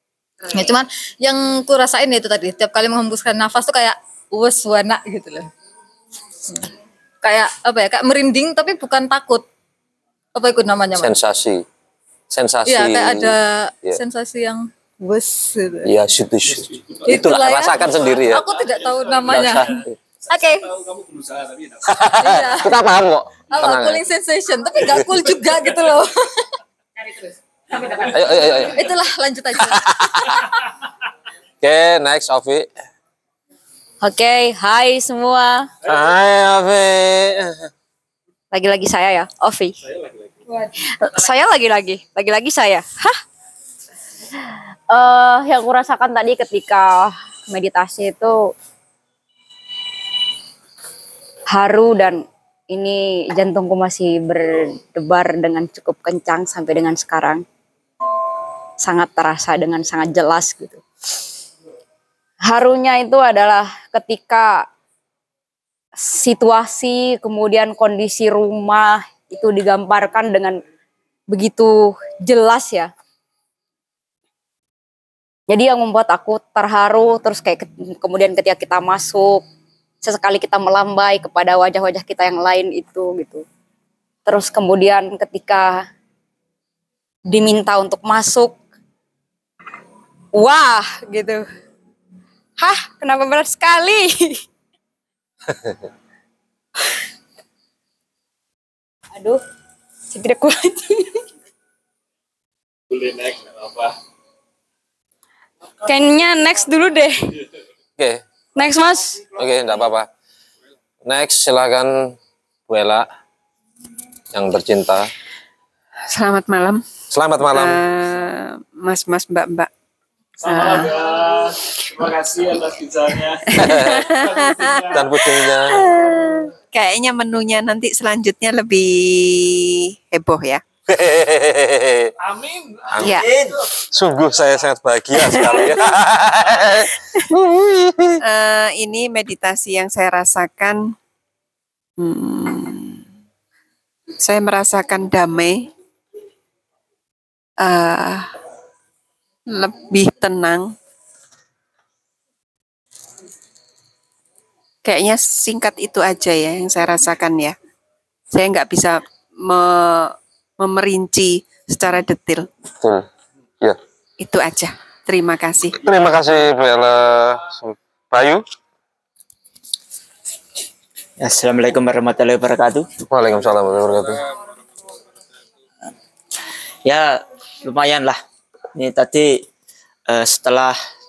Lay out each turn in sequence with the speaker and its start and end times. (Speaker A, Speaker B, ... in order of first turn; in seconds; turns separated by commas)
Speaker A: 0.5-5.5, Speaker A: 7.2-9.5, Speaker A: 10.3-11.2, Speaker B: 11.0-11.6, Speaker B: 12.3-14.0, Speaker A: 12.7-15.9, Speaker B: 15.8-18.4, Speaker C: 16.5-17.3, Speaker A: 17.1-20.7, Speaker C: 17.8-22.1, Speaker B: 19.3-19.9, Speaker B: 21.9-24.1, Speaker A: 22.2-22.8, Speaker A: 23.5-26.5, Speaker B: 28.1-28.9, Speaker A: 28.1-30.2, Speaker B: 29.6-30.3, Speaker B: 31.6-32.7, Speaker D: 34.0-35.7, Speaker B: 35.9-37.7, Speaker D: 38.5-39.8, Speaker C: 39.8-40.4, Speaker D: 40.9-43.2, Speaker D: 44.9-48.5, Speaker D: 51.5-57.4, Speaker D: 58.8-60.8, Speaker D: 62.4-64.7, Speaker D: 66.0-70.6, Speaker D: 71.3-72.9, Speaker D: 75.5-79.5, Speaker D: 80.0-83.5, Speaker D: 84.3-85.9, Speaker D: 87.3-88.6, Speaker D: 90.3-91.5, Speaker D: 92.6-94.1, Speaker C: 102.9-103.9, Speaker E: 105.8-107.2, Speaker E: 108.6-109.3, Speaker B: 109.3-110.1, Speaker B: 111.0-112.2, Speaker B: 112.7-113.1, Speaker B: 114.3-115.1, Speaker E: 116.1-116.8, Speaker B: 117.1-117.8, Speaker E: 117.4-119.7, Speaker C: 120.4-125.2, Speaker E: 120.5-121.0, Speaker B: 123.5-124.1, Speaker E: 123.6-124.7, Speaker B: 124.9-125.8, Speaker E: 125.2-130.6, Speaker B: 130.9-132.1, Speaker C: 132.2-132.9, Speaker B: 132.9-133.2, Speaker E: 133.0-133.3, Speaker F: 133.1-133.6, Speaker B: 133.9-138.1, Speaker E: 135.3-135.6, Speaker E: 138.2-140.9, Speaker E: 142.0-143.1, Speaker E: 144.2-145.7, Speaker E: 147.6-148.3, Speaker E: 149.5-150.8, Speaker E: 154.8-157.6, Speaker E: 158.3-162.5, Speaker B: 162.8-163.1, Speaker E: 164.2-165.8, Speaker B: 165.8-168.4, Speaker F: 171.2-172.9, Speaker B: 173.1-174.2, Speaker F: 176.9-178.2, Speaker F: 178.8-179.4, Speaker F: 180.1-180.8